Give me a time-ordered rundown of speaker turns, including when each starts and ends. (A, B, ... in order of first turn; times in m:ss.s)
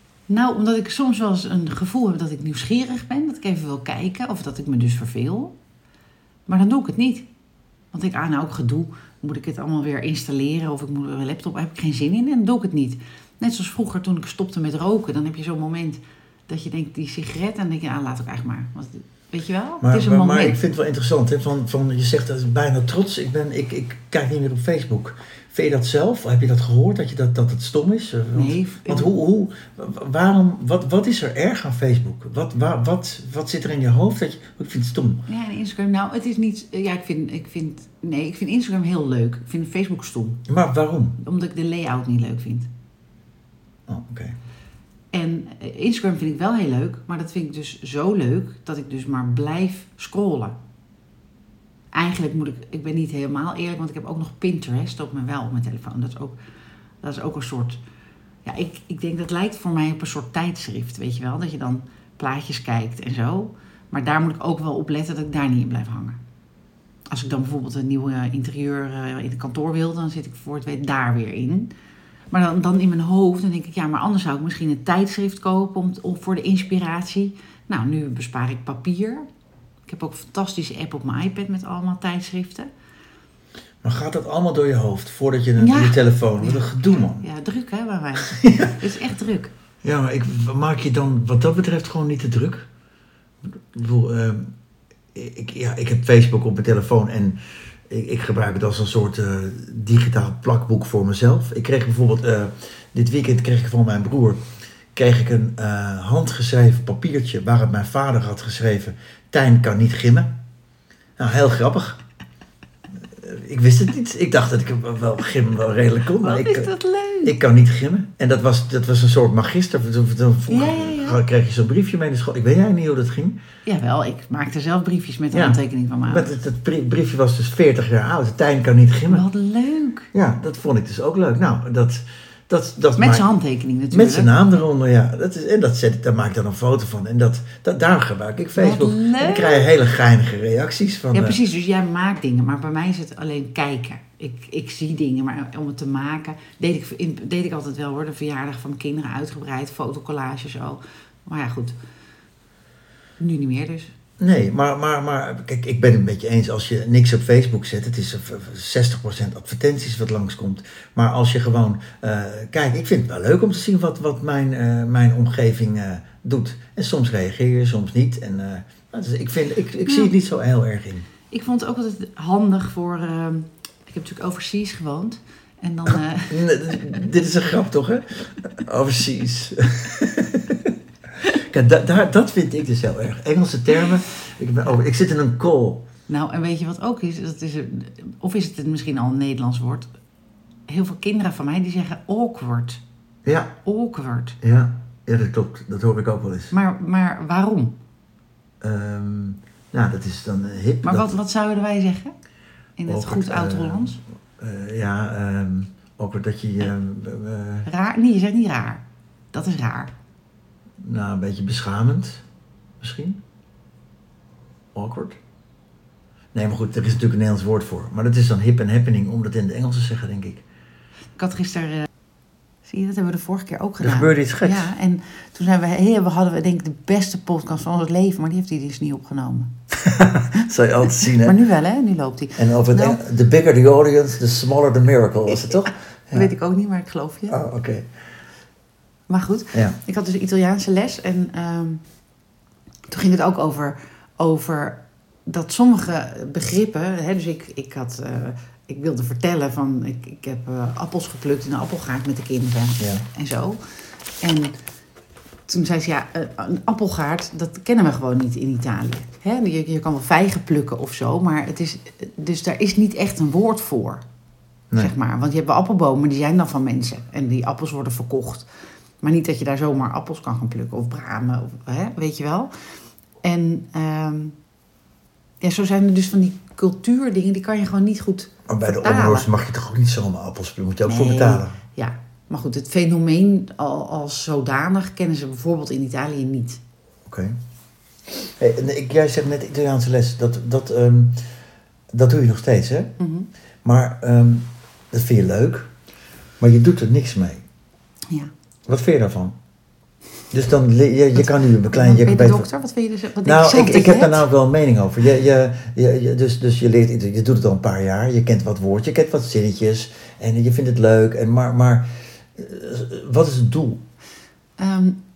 0:00.3-0:05.6 A
0:06.5-0:07.3 A
0:07.9-0:20.6 A
0:19.8-0:35.2 B
0:28.3-0:29.1 A
0:35.3-0:40.4 A
0:40.5-0:41.2 B
0:41.2-0:42.7 A
0:43.9-0:44.4 B
0:45.1-0:50.6 A
0:51.9-0:56.4 A
0:57.0-0:57.8 A
0:58.4-1:06.2 A
1:07.1-1:11.7 A
1:12.3-1:19.2 A
1:19.9-1:22.7 A
1:23.8-1:27.2 B
1:25.6-1:29.5 A
1:28.3-1:28.7 B
1:29.8-1:32.7 B
1:33.5-1:34.5 B
1:35.1-1:50.3 B
1:51.2-1:52.0 B
1:53.1-1:56.7 B
1:56.2-1:57.3 A
1:57.2-2:03.4 B
2:00.5-2:01.2 A
2:03.6-2:06.3 A
2:05.3-2:09.2 B
2:09.1-2:10.1 A
2:10.1-2:13.2 B
2:13.0-2:14.3 A
2:13.9-2:21.4 B
2:18.5-2:19.7 A
2:21.1-2:31.8 A
2:33.2-2:33.9 A
2:34.2-2:51.1 B
2:49.8-2:50.1 A
2:51.3-2:56.8 A
2:56.3-3:00.7 B
3:01.3-3:05.8 B
3:06.1-3:09.9 A
3:10.7-3:12.8 A
3:13.2-3:13.5 B
3:13.6-3:14.4 A
3:14.4-3:16.5 B
3:16.5-3:17.8 A
3:18.6-3:21.1 B
3:20.8-3:22.1 A
3:22.8-3:24.0 A
3:22.9-3:27.7 B
3:27.6-3:29.9 A
3:30.8-3:32.2 B
3:32.8-3:33.2 B
3:34.7-3:35.2 B
3:36.3-3:40.4 B
3:41.2-3:41.9 A
3:42.6-3:49.5 A
3:43.8-3:44.7 B
3:49.8-3:51.4 B
3:51.2-3:53.0 A
3:52.4-3:56.3 B
3:56.1-3:57.4 A
3:57.3-3:57.9 B
3:59.1-4:01.8 A
3:59.5-3:59.8 B
4:02.9-4:14.6 A
4:12.8-4:13.0 B
4:15.5-4:24.0 A
4:24.8-4:28.4 A
4:29.0-4:32.5 A
4:33.2-4:34.4 A
4:35.4-4:39.3 A
4:38.5-4:41.6 B
4:40.8-4:46.6 A
4:47.0-4:47.4 B
4:48.2-4:51.2 B
4:51.9-4:52.9 B
4:53.0-4:53.3 A
4:53.6-4:55.7 B
4:56.4-4:57.4 B
4:58.6-4:59.3 B
5:00.3-5:02.5 B
5:01.2-5:04.3 A
5:03.2-5:13.8 B
5:14.6-5:15.0 A